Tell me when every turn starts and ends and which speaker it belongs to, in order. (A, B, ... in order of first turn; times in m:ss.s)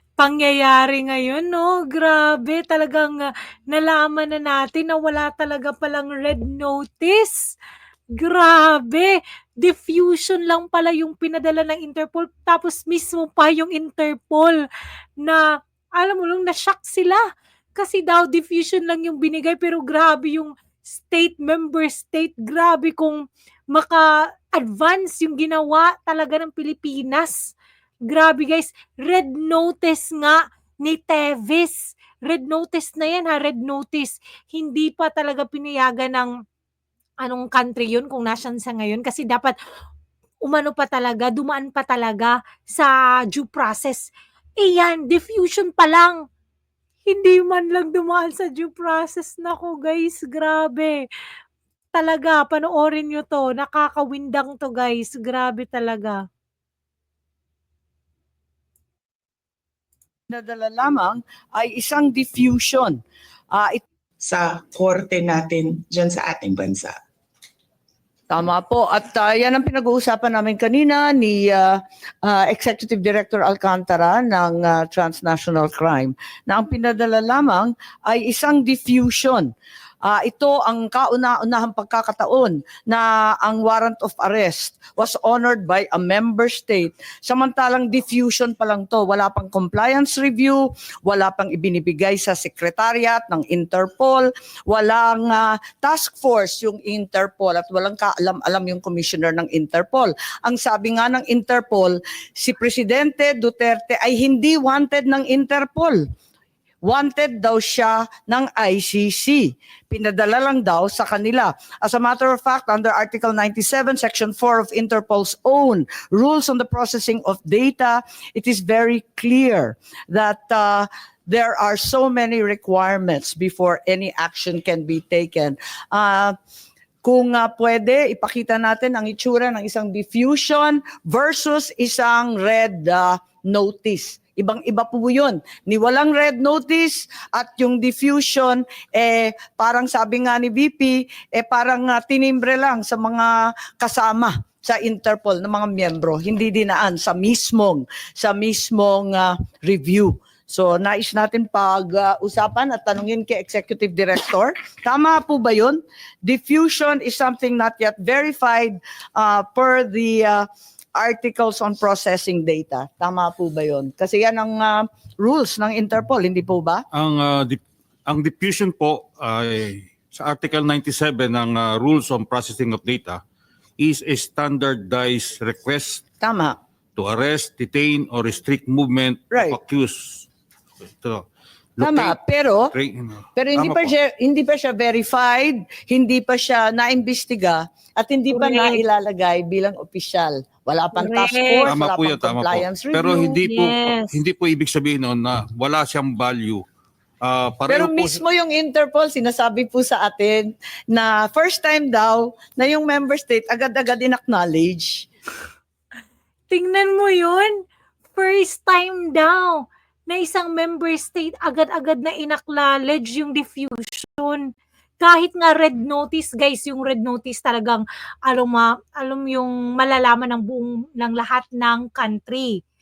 0:00.2-0:07.5 A
0:08.1-0:14.6 A
0:16.0-0:17.2 A
0:17.8-0:36.3 A
0:37.2-0:39.6 A
0:40.4-0:46.2 A
0:47.1-0:51.1 A
0:52.0-0:56.2 A
1:00.3-1:03.0 B
1:03.5-1:03.8 B
1:04.2-1:07.0 C
1:08.3-1:19.5 B
1:20.0-1:46.0 B
1:46.8-2:06.4 B
2:07.0-2:46.8 B
2:46.9-2:53.2 D
2:53.8-2:56.0 D
2:56.2-2:56.6 B
2:57.0-3:00.3 D
2:59.3-2:59.6 B
3:01.0-3:01.2 D
3:01.8-3:02.2 D
3:01.8-3:02.7 B
3:02.7-3:03.9 D
3:03.4-3:13.4 B
3:08.3-3:08.8 A
3:11.0-3:11.7 A
3:11.7-3:16.6 D
3:13.4-3:14.1 A
3:17.2-3:18.2 D
3:17.7-3:25.1 B
3:26.5-3:27.6 A
3:28.1-3:34.5 A
3:35.0-3:42.6 A